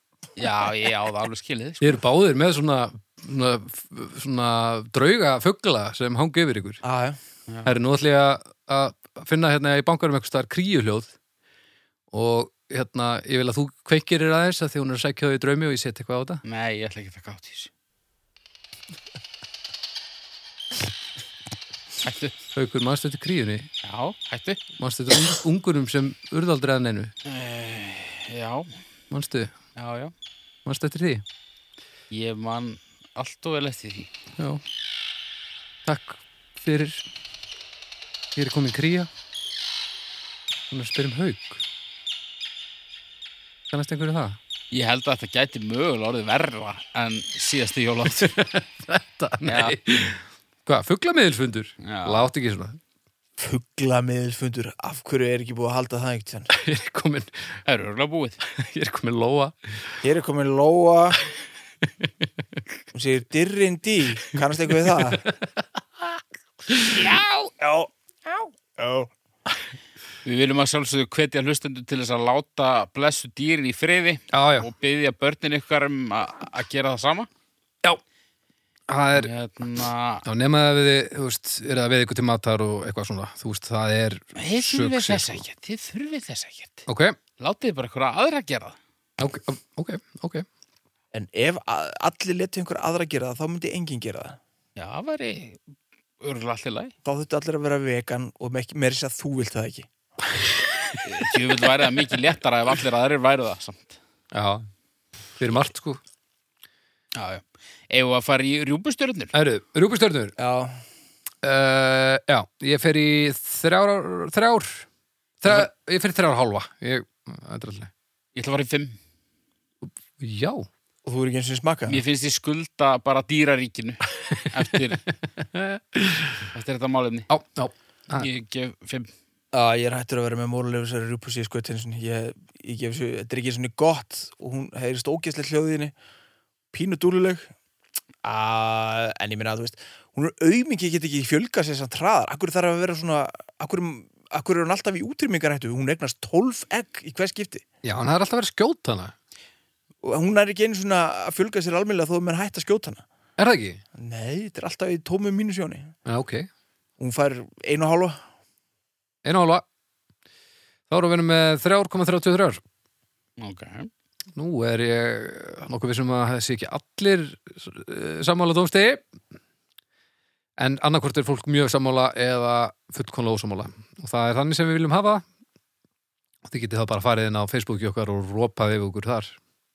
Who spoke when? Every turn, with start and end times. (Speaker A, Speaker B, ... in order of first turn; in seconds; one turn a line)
Speaker A: 0.4-2.0
Speaker B: 1.8-6.8
Speaker C: 6.8-7.2
Speaker A: 7.5-7.7
Speaker B: 7.6-11.1
Speaker B: 12.1-16.4
Speaker A: 16.4-17.7
Speaker A: 22.0-22.3
Speaker B: 22.5-23.7
Speaker A: 23.8-24.6
Speaker B: 24.8-27.1
Speaker A: 27.2-28.8
Speaker B: 29.1-29.5
Speaker A: 29.8-30.1
Speaker B: 30.6-31.2
Speaker A: 32.1-34.1
Speaker B: 34.4-34.6
Speaker B: 35.8-37.0
Speaker B: 38.3-39.1
Speaker B: 40.7-41.6
Speaker B: 43.7-44.4
Speaker A: 44.7-48.4
Speaker B: 48.0-52.8
Speaker A: 49.4-49.8
Speaker A: 51.8-52.3
Speaker C: 53.4-56.5
Speaker B: 56.5-57.5
Speaker A: 57.6-58.4
Speaker B: 58.5-60.0
Speaker C: 60.0-61.2
Speaker B: 61.8-62.6
Speaker C: 62.9-65.2
Speaker B: 64.8-67.1
Speaker C: 67.3-69.1
Speaker A: 70.2-77.3
Speaker B: 74.3-74.7
Speaker B: 78.9-79.3
Speaker A: 79.1-80.2
Speaker B: 80.2-85.4
Speaker A: 84.3-86.8
Speaker B: 86.9-87.2
Speaker A: 87.4-88.8
Speaker B: 89.2-90.5
Speaker C: 91.1-94.4
Speaker A: 94.8-95.6
Speaker A: 96.2-96.9
Speaker C: 97.0-99.9
Speaker A: 101.0-104.0
Speaker B: 104.3-104.7
Speaker B: 105.4-106.0
Speaker A: 107.1-109.3
Speaker B: 109.3-110.3
Speaker C: 110.4-110.8
Speaker B: 111.4-114.8
Speaker B: 115.4-117.9
Speaker A: 118.3-119.0
Speaker B: 119.8-120.7
Speaker C: 121.0-122.0
Speaker A: 121.9-125.0
Speaker B: 124.3-124.6
Speaker B: 125.4-126.5
Speaker A: 126.5-127.3
Speaker B: 127.3-128.3
Speaker A: 128.1-129.1
Speaker C: 129.5-135.9
Speaker C: 136.7-137.5
Speaker C: 138.2-147.6
Speaker B: 147.8-149.1
Speaker C: 150.0-153.0
Speaker B: 153.4-153.8
Speaker C: 153.9-155.9
Speaker B: 156.1-156.5
Speaker C: 157.0-158.2
Speaker B: 159.2-159.6
Speaker B: 160.9-162.6
Speaker A: 163.4-163.9
Speaker B: 164.3-169.0
Speaker B: 170.6-175.2
Speaker B: 176.4-179.3